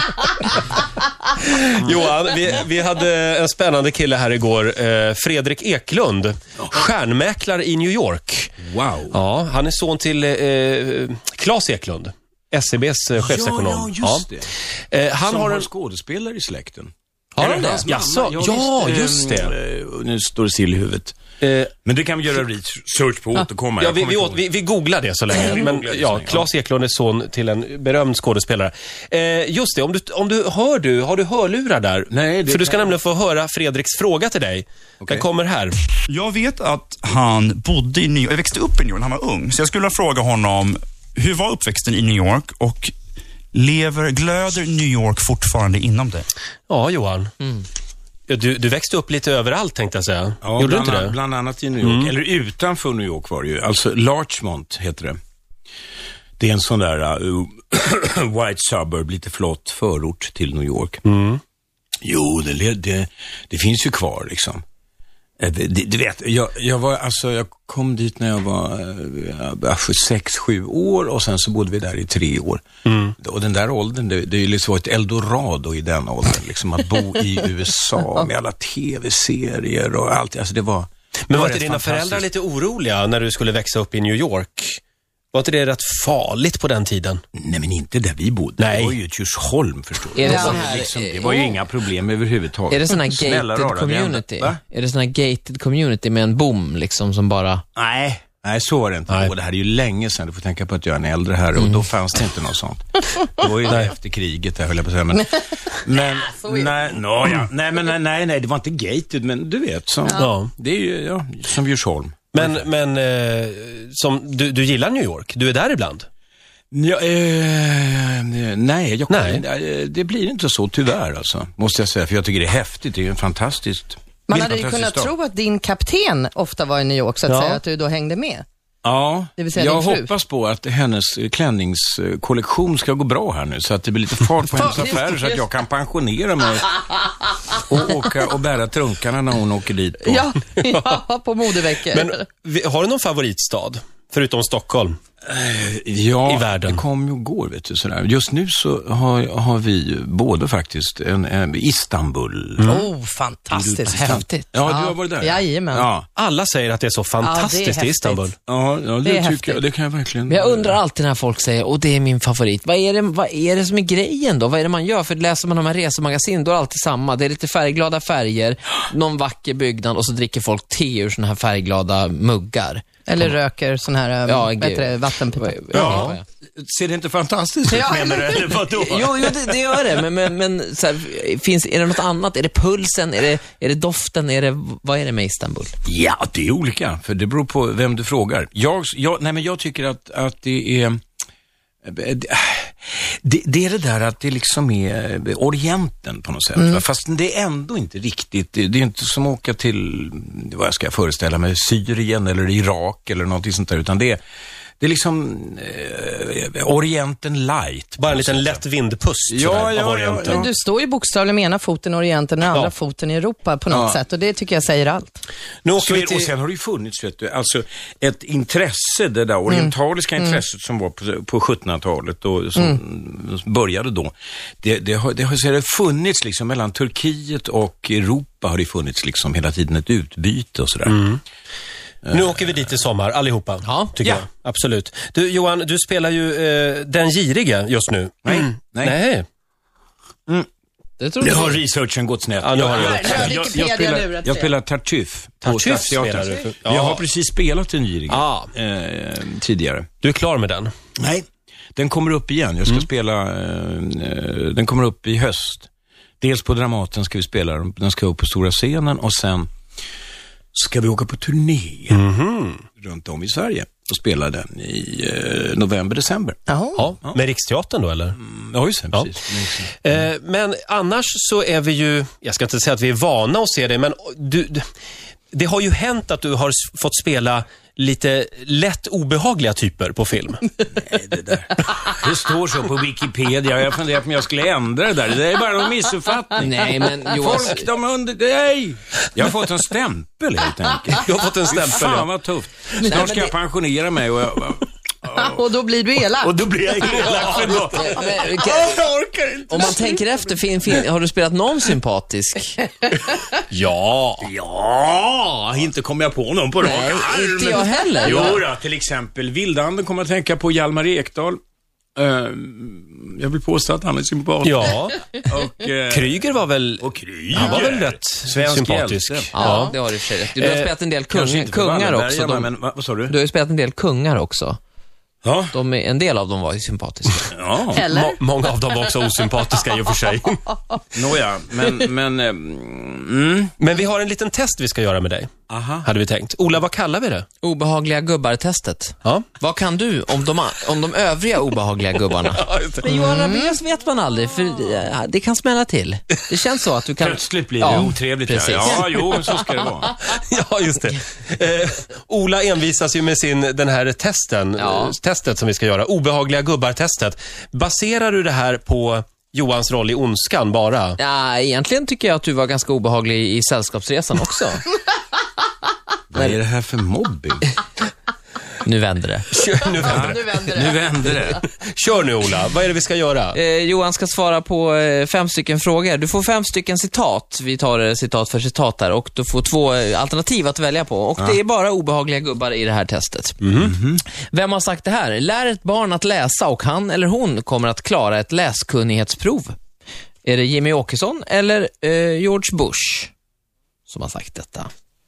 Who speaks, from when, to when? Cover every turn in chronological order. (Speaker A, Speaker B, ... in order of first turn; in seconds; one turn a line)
Speaker A: 1.4-8.6
Speaker B: 8.6-9.2
Speaker A: 9.1-14.3
Speaker B: 13.2-14.5
Speaker A: 14.9-15.7
Speaker B: 15.2-21.2
Speaker A: 17.4-19.5
Speaker A: 21.4-21.7
Speaker B: 21.8-24.4
Speaker A: 23.8-35.8
Speaker B: 25.3-26.5
Speaker B: 32.1-33.0
Speaker C: 36.1-42.9
Speaker C: 43.5-46.2
Speaker A: 46.7-47.3
Speaker A: 48.3-51.1
Speaker B: 50.4-55.2
Speaker A: 51.8-52.1
Speaker B: 56.4-61.0
Speaker A: 61.0-61.4
Speaker B: 62.0-64.6
Speaker B: 65.4-72.6
Speaker A: 72.8-73.1
Speaker B: 73.2-82.3
Speaker A: 81.3-84.8
Speaker A: 85.3-87.2
Speaker B: 87.3-94.6
Speaker A: 88.6-89.0
Speaker D: 90.1-91.6
Speaker E: 90.2-90.7
Speaker D: 92.7-97.6
Speaker B: 97.8-112.6
Speaker D: 101.5-101.9
Speaker E: 106.3-106.7
Speaker A: 110.2-110.5
Speaker A: 112.3-116.1
Speaker B: 116.7-125.1
Speaker A: 119.1-119.4
Speaker E: 124.3-128.4
Speaker A: 127.3-127.6
Speaker B: 128.8-136.7
Speaker E: 129.4-130.1
Speaker E: 134.6-135.1
Speaker B: 137.5-140.2
Speaker E: 140.0-142.2
Speaker A: 141.8-145.0
Speaker B: 145.2-152.8
Speaker A: 146.3-146.8
Speaker A: 152.6-152.8
Speaker E: 152.7-154.1
Speaker B: 153.5-156.1
Speaker D: 153.9-154.5
Speaker E: 154.6-155.9
Speaker A: 156.2-158.3
Speaker E: 157.2-158.2
Speaker B: 158.4-160.8
Speaker E: 159.0-159.6
Speaker D: 160.3-172.8
Speaker E: 173.1-176.0
Speaker D: 174.2-176.2
Speaker A: 175.7-176.2
Speaker B: 175.7-180.0
Speaker E: 177.7-178.6
Speaker D: 178.7-185.7
Speaker B: 185.8-191.0
Speaker B: 191.8-204.2
Speaker B: 204.8-208.6
Speaker A: 208.0-210.4
Speaker B: 209.3-210.5
Speaker E: 210.2-215.1
Speaker B: 213.7-214.0
Speaker A: 215.6-216.3
Speaker B: 215.8-231.1
Speaker A: 230.9-231.2
Speaker B: 232.0-232.3
Speaker A: 232.1-239.2
Speaker D: 233.6-233.9
Speaker B: 238.2-239.0
Speaker D: 241.0-241.6
Speaker B: 241.2-249.9
Speaker A: 242.4-243.5
Speaker E: 242.7-244.5
Speaker A: 245.4-247.0
Speaker A: 248.1-248.5
Speaker A: 250.0-250.7
Speaker B: 251.0-251.2
Speaker B: 251.8-255.7
Speaker B: 256.2-259.5
Speaker B: 260.5-262.0
Speaker A: 261.9-262.6
Speaker B: 262.8-266.4
Speaker E: 266.5-266.8
Speaker A: 266.8-268.2
Speaker B: 268.2-269.8
Speaker A: 269.8-274.7
Speaker A: 275.3-280.5
Speaker B: 280.7-295.5
Speaker D: 286.4-287.7
Speaker A: 291.0-292.1
Speaker D: 292.8-293.3
Speaker E: 295.1-297.1
Speaker B: 296.1-300.0
Speaker D: 297.1-298.8
Speaker D: 299.5-302.6
Speaker A: 303.5-304.3
Speaker B: 304.2-311.4
Speaker D: 306.6-308.4
Speaker B: 311.9-316.2
Speaker A: 314.4-315.0
Speaker A: 315.9-319.8
Speaker B: 316.8-319.3
Speaker D: 319.3-324.6
Speaker A: 320.3-320.7
Speaker B: 321.1-323.1
Speaker B: 325.2-325.5
Speaker D: 325.5-327.3
Speaker B: 327.3-327.9
Speaker A: 327.7-330.4
Speaker E: 327.8-328.2
Speaker B: 330.9-333.5
Speaker A: 333.6-335.3
Speaker B: 335.5-335.9
Speaker A: 335.8-337.3
Speaker D: 337.4-349.0
Speaker A: 342.3-343.0
Speaker E: 343.1-343.4
Speaker B: 347.0-349.9
Speaker A: 348.6-361.0
Speaker D: 354.6-354.9
Speaker D: 361.0-364.7
Speaker B: 366.1-367.5
Speaker D: 368.6-369.3
Speaker A: 369.3-370.4
Speaker E: 369.8-370.8
Speaker B: 369.8-371.4
Speaker A: 371.4-373.4
Speaker D: 373.3-383.4
Speaker A: 383.4-383.7
Speaker B: 383.6-384.0
Speaker D: 384.3-389.6
Speaker D: 390.2-393.1
Speaker D: 393.9-394.7